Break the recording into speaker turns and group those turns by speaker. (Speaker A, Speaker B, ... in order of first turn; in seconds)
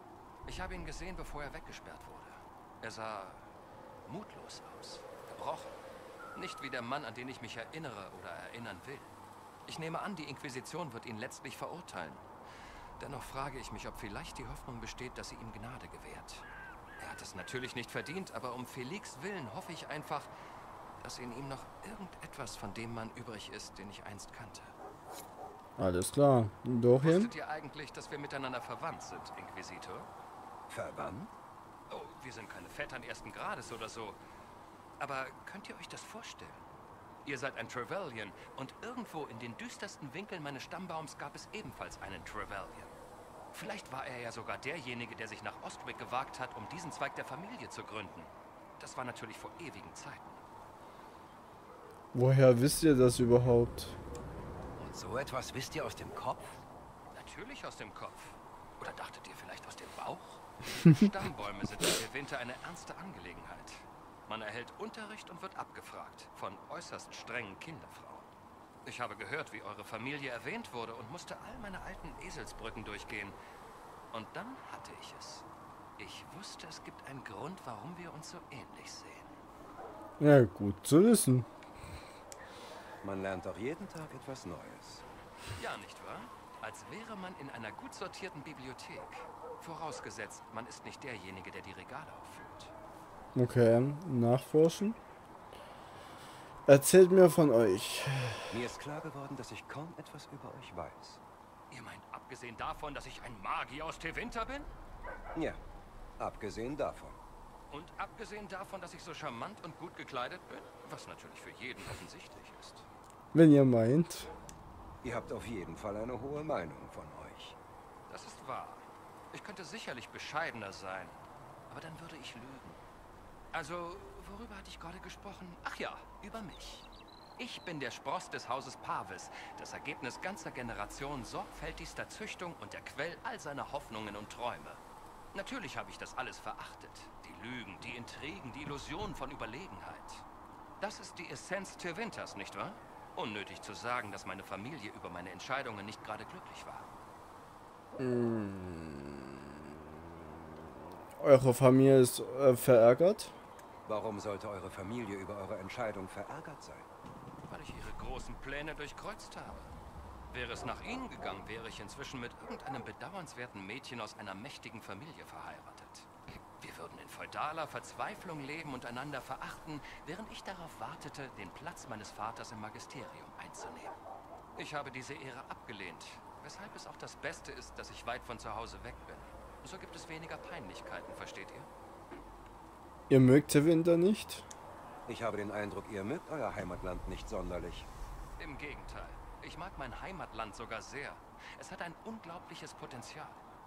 Speaker A: 0.5-3.5, 4.0-5.7, 6.3-9.1, 9.7-12.2, 13.0-16.4, 17.0-20.3, 21.0-24.7, 27.0-30.1, 31.9-34.2, 35.0-36.7, 37.2-42.9, 43.5-50.4, 57.1-68.3, 68.8-73.4, 74.1-75.4, 76.0-79.4, 85.5-92.7, 101.7-104.7, 107.7-112.9, 118.1-122.8, 123.5-126.9, 127.4-134.8, 135.3-140.2, 140.8-147.0, 157.5-159.8, 160.3-166.1, 166.6-173.9, 174.6-181.7, 188.4-193.4
Speaker B: 25.8-27.3, 52.1-54.0, 80.2-81.5, 93.3-95.0, 96.7-98.5, 113.3-114.3, 148.0-149.4, 151.2-153.3, 183.1-184.4
Speaker C: 30.7-31.3, 54.8-56.6, 83.0-85.0, 98.5-101.2, 105.3-105.6, 106.2-107.2, 115.0-117.5, 153.9-156.9, 185.1-187.9